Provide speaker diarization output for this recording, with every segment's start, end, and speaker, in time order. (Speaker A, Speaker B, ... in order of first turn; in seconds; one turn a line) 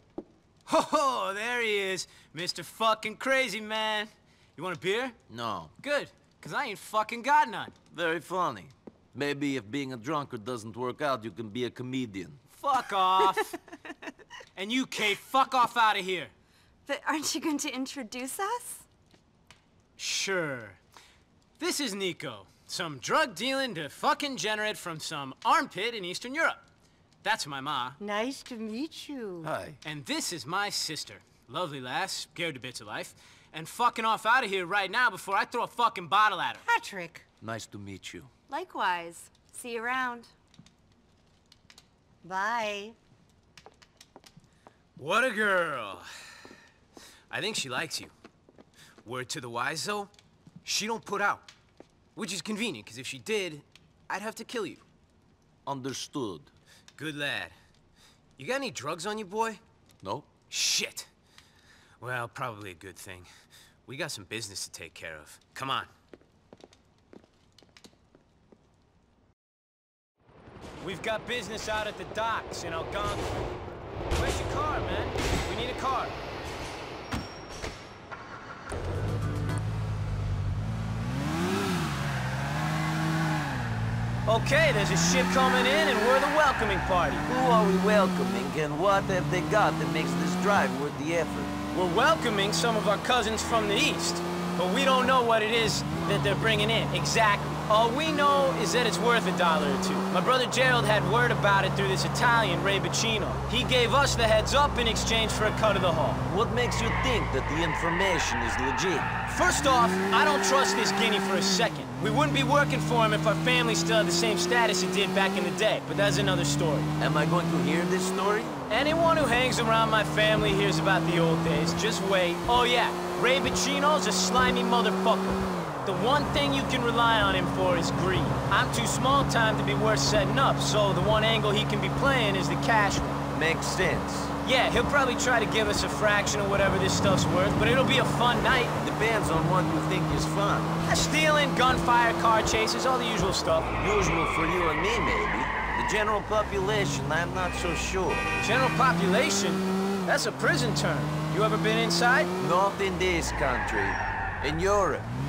Speaker A: 0.7-5.2
Speaker B: 5.3-5.7
Speaker A: 5.8-7.7
Speaker B: 7.9-12.4
Speaker A: 12.5-13.6
Speaker A: 14.6-16.3
Speaker C: 16.9-18.9
Speaker A: 20.0-20.8
Speaker A: 21.6-26.6
Speaker A: 27.2-28.0
Speaker D: 28.0-29.5
Speaker B: 29.4-29.8
Speaker A: 29.8-36.6
Speaker D: 36.7-37.2
Speaker B: 37.4-38.3
Speaker C: 38.5-40.3
Speaker D: 42.2-43.0
Speaker A: 45.0-46.1
Speaker A: 47.3-48.1
Speaker A: 49.0-50.1
Speaker A: 50.6-51.5
Speaker A: 52.1-54.9
Speaker B: 55.7-56.5
Speaker A: 57.0-57.5
Speaker A: 58.4-59.6
Speaker B: 60.0-60.3
Speaker A: 60.5-61.1
Speaker A: 62.0-63.3
Speaker A: 63.9-65.9
Speaker A: 70.8-73.3
Speaker A: 74.1-76.2
Speaker A: 84.3-87.3
Speaker B: 87.2-91.5
Speaker A: 91.7-106.2
Speaker B: 106.2-109.1
Speaker A: 109.3-116.9
Speaker B: 117.0-118.6
Speaker A: 118.7-133.2
Speaker B: 133.3-134.3
Speaker A: 134.4-138.8
Speaker B: 138.8-140.7
Speaker A: 140.8-143.7
Speaker B: 143.8-148.3
Speaker A: 148.4-152.3
Speaker B: 152.4-155.1